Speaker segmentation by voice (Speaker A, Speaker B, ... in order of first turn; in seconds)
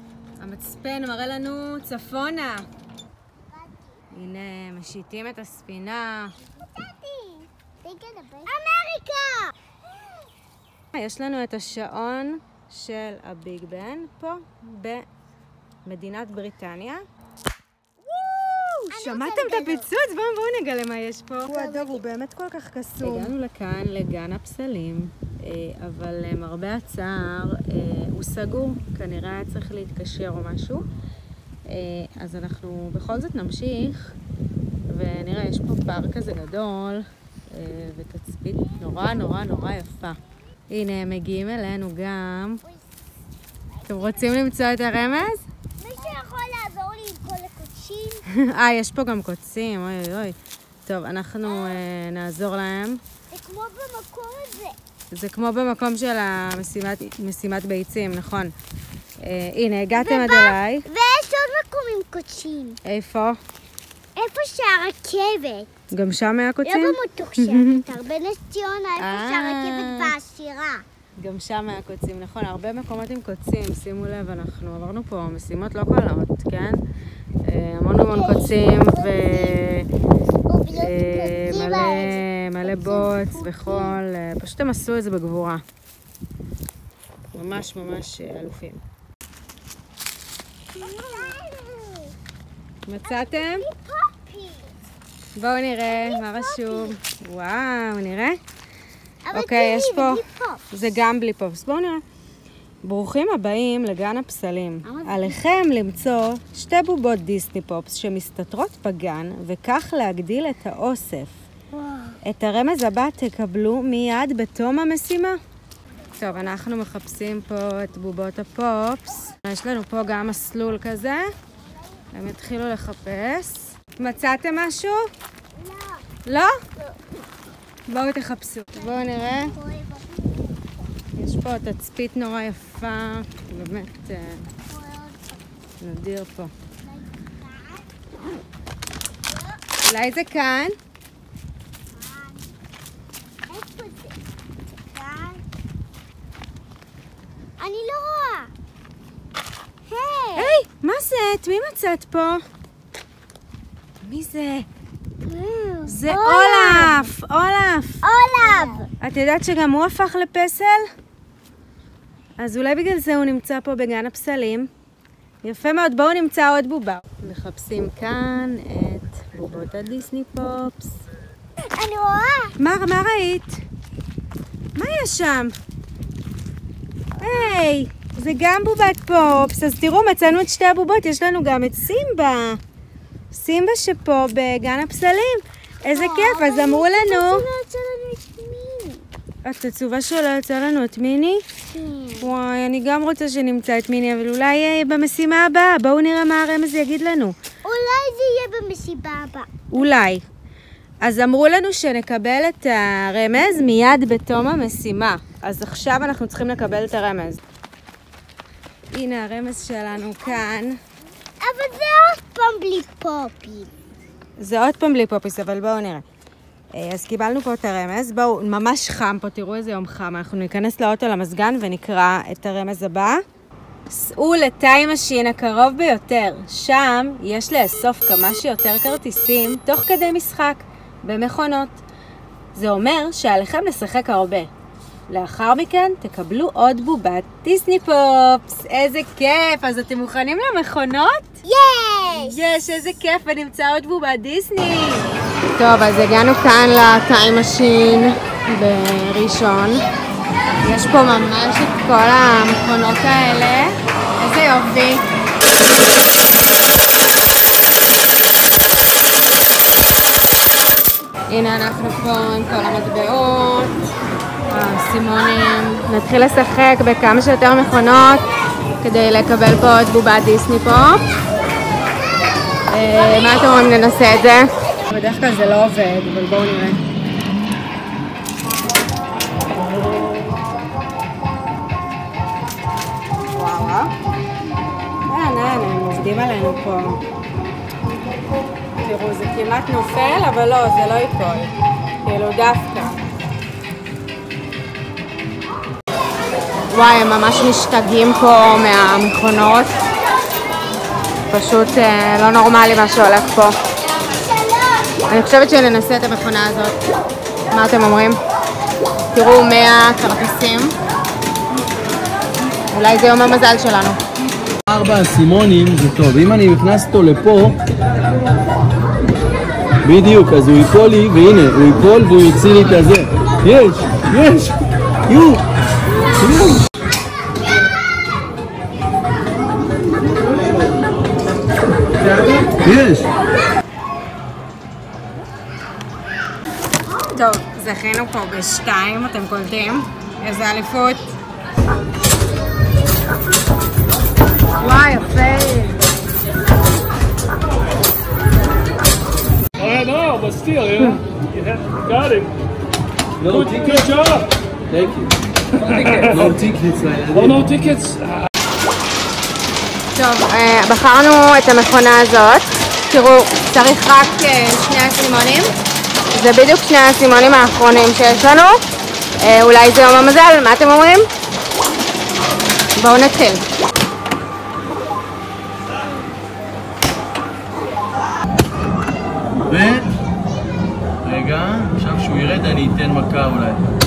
Speaker A: 0.4-2.6, 4.1-6.3, 10.9-15.0, 15.8-17.0, 18.9-30.8, 31.7-34.1, 34.9-40.2, 40.7-42.6, 43.9-45.4, 48.3-50.3, 50.9-53.0, 55.1-58.5, 59.2-60.9, 62.8-63.4, 65.9-67.8, 69.0-70.1, 71.2-76.8, 77.4-79.9, 80.7-85.6, 87.3-88.8, 92.8-93.7, 95.3-98.4, 99.3-102.0, 102.8-111.4, 112.2-115.4, 116.2-121.3, 122.1-125.1, 126.2-126.6, 127.9-129.5, 131.1-134.5, 135.8-136.5, 139.8-140.8, 150.3-152.4, 154.0-154.7, 155.8-160.8, 162.4-164.7, 165.4-171.0, 172.6-173.6, 174.7-175.5, 177.2-182.6, 183.3-187.4, 189.4-191.4, 192.2-197.3, 199.7-200.2, 201.0-207.4, 208.9-210.8, 214.4-216.0, 216.7-223.2, 223.9-231.8, 232.5-234.5, 235.1-241.4, 242.1-249.8, 250.6-255.1, 261.3-263.8, 264.5-268.2, 268.8-271.0, 272.7-276.8, 283.3-283.9, 285.1-287.0, 288.8-293.0, 296.7-299.8, 301.3-303.6, 305.1-306.8, 307.5-308.2, 309.1-310.7, 312.7-314.0, 337.0-341.2, 344.6-345.8, 359.9-365.6, 366.1-368.6, 369.2-371.1, 372.8-373.4
Speaker B: 3.5-4.0, 6.6-9.5, 18.1-19.9, 21.5-22.0, 23.0-23.3, 38.8-39.5, 43.7-44.4, 45.8-48.2, 51.4-51.8, 53.3-54.8, 59.9-62.8, 64.2-65.7, 66.6-70.8, 77.9-79.6, 80.5-84.0, 90.7-92.1, 93.1-94.8, 95.8-97.0, 99.2-100.6, 104.8-105.4, 111.7-112.1, 125.5-126.1, 128.8-130.5, 134.5-135.4, 136.8-137.8, 139.3-139.6, 141.9-142.5, 143.5-145.4, 147.6-148.5, 149.9-150.6, 155.2-157.1, 158.0-158.9, 171.6-172.5, 185.9-189.0, 191.7-192.3, 197.6-199.6, 210.0-210.4, 211.4-213.7, 241.4-242.4, 304.2-305.0
Speaker C: 314.7-317.6, 319.8-325.4, 326.2-326.6, 332.0-333.1, 353.2-357.6, 379.4-379.9, 381.0-383.6
Speaker D: 349.6-350.7, 351.7-351.9, 357.5-358.1